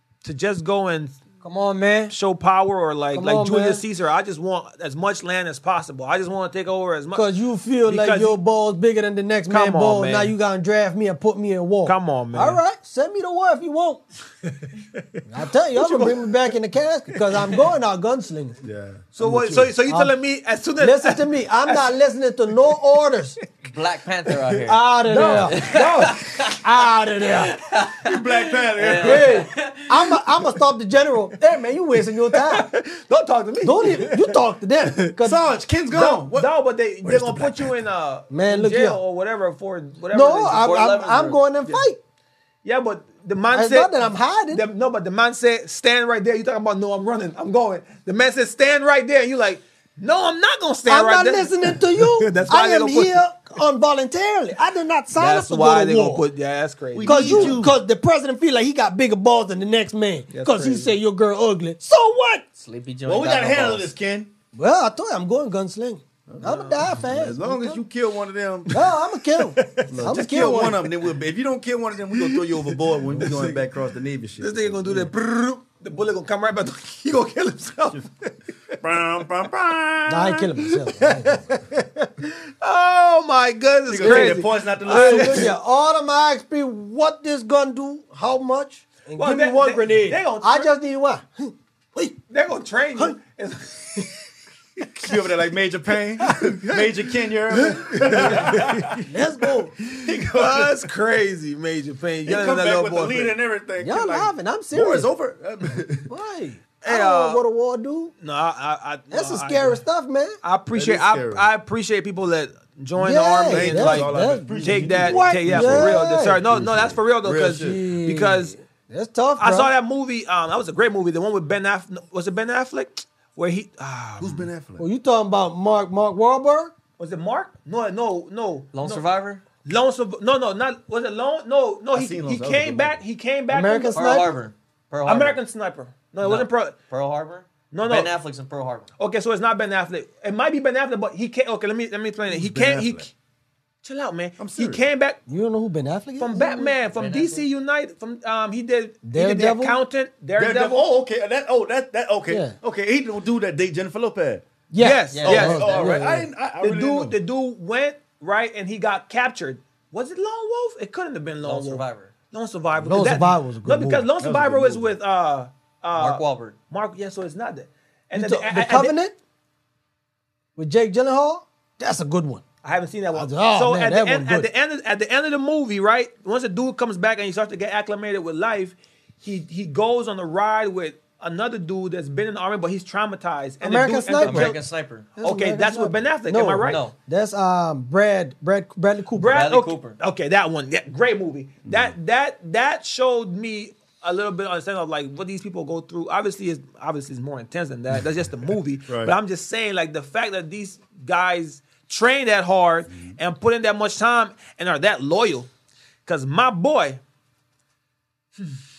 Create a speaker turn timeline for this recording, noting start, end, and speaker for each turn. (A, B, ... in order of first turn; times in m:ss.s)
0:00.2-0:01.2 A
0:01.4-0:02.2 B
0:02.1-0:07.3 A
0:03.1-0:03.8 B
0:07.1-0:14.0 B
0:07.9-0:08.4 A
0:09.5-0:10.3 A
0:11.8-0:12.6 A
0:15.0-0:16.6 A
0:15.3-0:18.6 B
0:17.3-0:17.6 A
0:18.6-0:19.8 C
0:19.2-0:21.9 A
0:19.9-0:20.1 B
0:20.8-0:23.4 B
0:23.6-0:24.8 D
0:24.6-0:25.8 B
0:25.1-0:26.2 A
0:25.4-0:26.6 D
0:26.5-0:27.6 B
0:27.2-0:30.2 D
0:28.0-0:29.4 C
0:28.9-0:29.2 A
0:29.0-0:32.7 B
0:32.3-0:35.2 A
0:33.6-0:35.4 B
0:35.2-0:36.5 C
0:35.9-0:40.7 A
0:37.0-0:37.8 C
0:38.3-0:39.0 B
0:40.1-0:42.0 B
0:40.5-0:41.4 D
0:42.6-0:53.3 A
0:43.5-0:44.6 B
0:50.9-0:56.3 B
0:55.2-0:57.6 A
0:56.9-0:57.8 C
0:57.0-1:02.4 B
1:00.3-1:01.0 A
1:02.6-1:03.9 D
1:03.1-1:04.3 C
1:04.5-1:07.8 B
1:06.3-1:08.8 C
1:06.4-1:06.9 A
1:08.7-1:10.8 B
1:09.4-1:10.8 A
1:09.9-1:15.1 C
1:12.1-1:13.7 A
1:14.4-1:18.3 A
1:18.8-1:21.2 C
1:20.1-1:22.1 B
1:22.3-1:25.6 A
1:23.9-1:25.5 C
1:24.0-1:32.2 B
1:29.1-1:30.7 A
1:32.3-1:34.2 A
1:35.0-1:39.1 C
1:36.2-1:36.9 B
1:37.5-1:38.9 A
1:39.0-1:39.8 B
1:39.8-1:43.4 A
1:40.0-1:40.9 C
1:42.2-1:46.1 C
1:43.8-1:45.1 B
1:46.1-1:48.1 B
1:46.8-1:47.4 A
1:48.2-1:49.8 A
1:49.1-1:50.4 B
1:50.4-1:58.6 A
1:50.7-1:51.5 C
1:53.0-1:56.4 B
1:53.5-1:57.8 C
1:57.5-1:59.7 B
1:59.4-2:04.5 A
2:04.2-2:04.9 C
2:04.8-2:06.7 B
2:07.0-2:09.0 A
2:08.7-2:09.4 D
2:09.6-2:14.2 A
2:11.9-2:13.0 C
2:13.5-2:14.3 B
2:13.9-2:15.4 D
2:15.1-2:16.8 A
2:16.2-2:18.9 D
2:17.7-2:18.1 A
2:19.0-2:23.1 A
2:22.3-2:23.1 C
2:23.8-2:25.2 A
2:24.4-2:24.8 C
2:25.3-2:26.8 B
2:26.2-2:30.9 A
2:26.9-2:27.4 D
2:29.0-2:29.8 B
2:30.4-2:34.5 C
2:32.3-2:32.6 B
2:34.7-2:36.3 B
2:34.8-2:35.8 A
2:35.1-2:35.9 D
2:35.2-2:37.2 C
2:36.6-2:49.0 A
2:41.4-2:42.1 D
2:42.8-2:44.1 B
2:44.2-2:45.0 C
2:46.0-2:46.6 D
2:48.1-2:49.2 B
2:50.6-2:52.4 B
2:52.6-3:04.6 A
2:53.1-2:54.5 B
3:03.6-3:04.6 B
3:04.2-3:05.1 D
3:05.2-3:09.4 B
3:05.2-3:06.8 A
3:06.6-3:07.0 D
3:09.2-3:25.5 A
3:09.2-3:10.0 D
3:11.6-3:12.0 C
3:18.9-3:19.2 C
3:22.9-3:23.2 C
3:26.1-3:27.0 A